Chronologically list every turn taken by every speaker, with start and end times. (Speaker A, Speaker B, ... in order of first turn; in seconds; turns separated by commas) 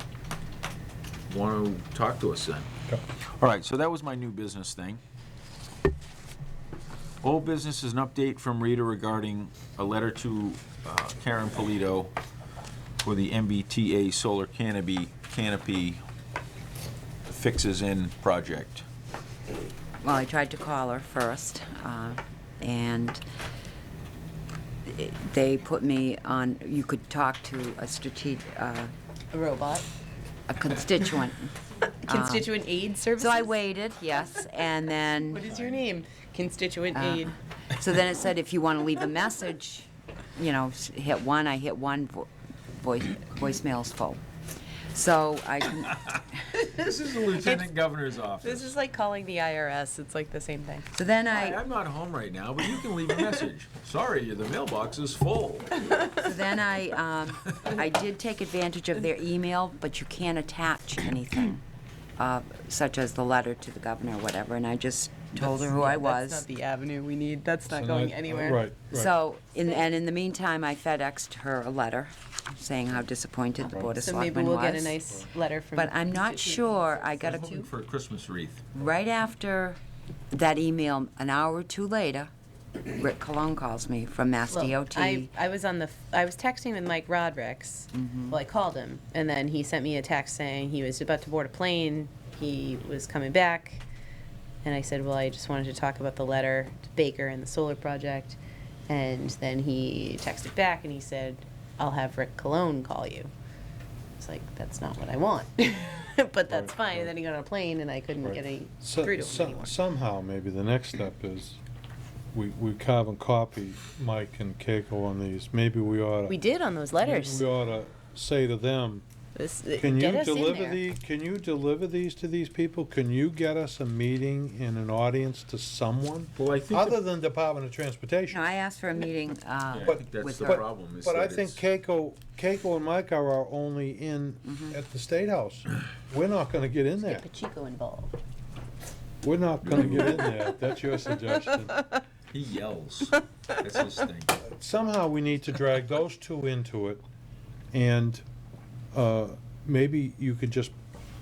Speaker A: 1.3-2.7, Speaker A: 3.2-5.0, Speaker A: 7.2-12.1, Speaker A: 13.0-16.0, Speaker A: 17.2-18.8, Speaker B: 20.0-23.2, Speaker B: 24.9-28.9, Speaker C: 29.3-29.9, Speaker B: 30.5-31.5, Speaker B: 32.1-32.5, Speaker C: 32.1-33.6, Speaker B: 33.1-35.4, Speaker C: 35.2-37.3, Speaker A: 35.5-35.8, Speaker B: 36.9-44.2, Speaker B: 44.9-46.0, Speaker A: 45.8-48.8, Speaker C: 48.4-50.9, Speaker B: 50.9-51.6, Speaker A: 51.2-56.1, Speaker B: 56.1-61.6, Speaker B: 62.2-66.4, Speaker C: 65.3-68.7, Speaker D: 67.7-69.1, Speaker B: 68.9-75.0, Speaker D: 73.7-74.0, Speaker C: 74.0-77.7, Speaker B: 75.8-77.6, Speaker A: 77.2-78.6, Speaker B: 78.7-79.8, Speaker B: 80.3-82.3, Speaker B: 83.0-85.3, Speaker C: 84.5-93.8, Speaker B: 87.9-88.4, Speaker C: 94.6-103.3, Speaker C: 104.2-109.7, Speaker D: 106.5-107.1, Speaker D: 108.2-111.6, Speaker D: 112.3-116.4, Speaker C: 116.3-117.5, Speaker D: 117.0-119.0, Speaker C: 119.3-120.8, Speaker D: 119.8-128.4, Speaker A: 126.3-127.0, Speaker B: 128.3-130.6, Speaker A: 129.7-131.6, Speaker D: 129.8-137.2, Speaker B: 134.5-134.7, Speaker C: 137.0-138.2, Speaker D: 139.2-141.8, Speaker A: 139.6-140.3, Speaker C: 140.1-140.3, Speaker A: 142.3-144.4, Speaker D: 144.4-147.0, Speaker D: 147.7-148.2, Speaker D: 148.9-150.7